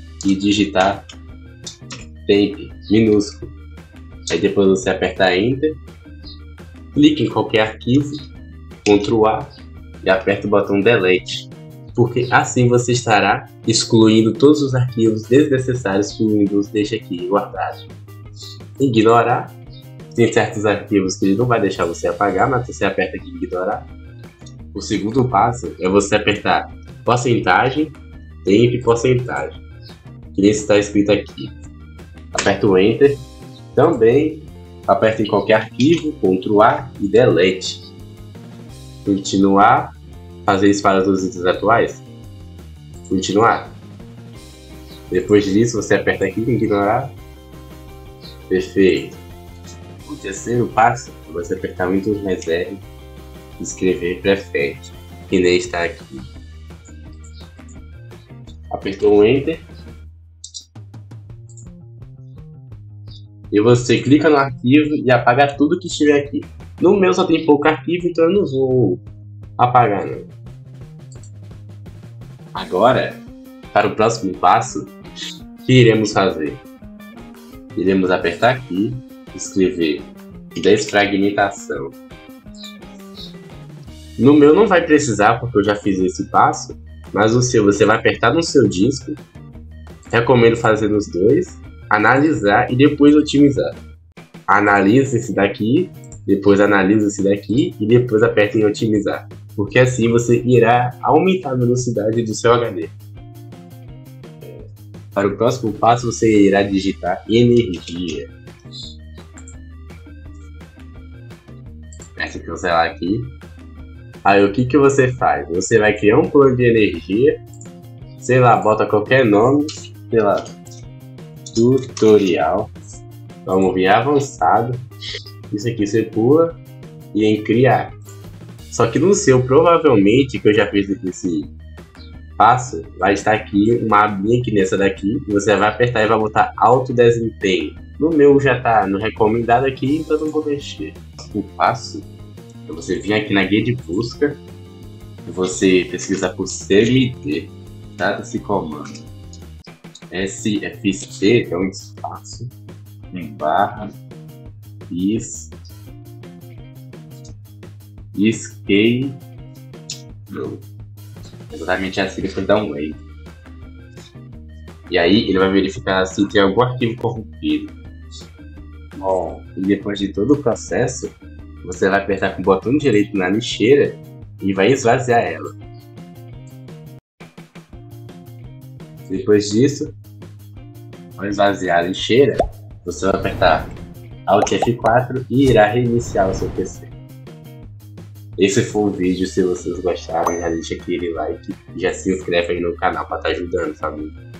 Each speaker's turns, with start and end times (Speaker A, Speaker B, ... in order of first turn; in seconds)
Speaker A: 0.2-1.0, 2.3-3.5, 4.3-5.8, 6.9-8.2, 8.8-9.5, 10.0-17.9, 18.8-19.5, 20.1-23.9, 24.7-29.6, 30.3-31.6, 32.4-33.2, 33.8-37.8, 39.0-39.9, 40.5-42.0, 43.1-43.8, 45.1-47.1, 48.5-49.2, 50.0-52.8, 53.6-56.2, 58.7-59.6, 63.5-69.0, 69.6-70.3, 72.5-74.9, 75.6-76.6, 77.8-82.0, 84.2-89.2, 90.1-93.8, 94.5-102.9, 104.4-108.3, 112.2-113.3, 114.2-117.4, 118.2-120.4, 121.5-122.7, 123.5-124.8, 125.5-126.6, 127.1-127.9, 128.7-131.5, 132.4-142.1, 142.7-144.4, 145.2-149.1, 150.1-152.5, 153.1-153.9, 154.9-155.5, 158.1-159.2, 160.3-160.7, 161.5-163.0, 164.9-167.7, 168.9-175.5, 179.1-179.9, 181.2-183.7, 184.3-186.9, 188.4-194.2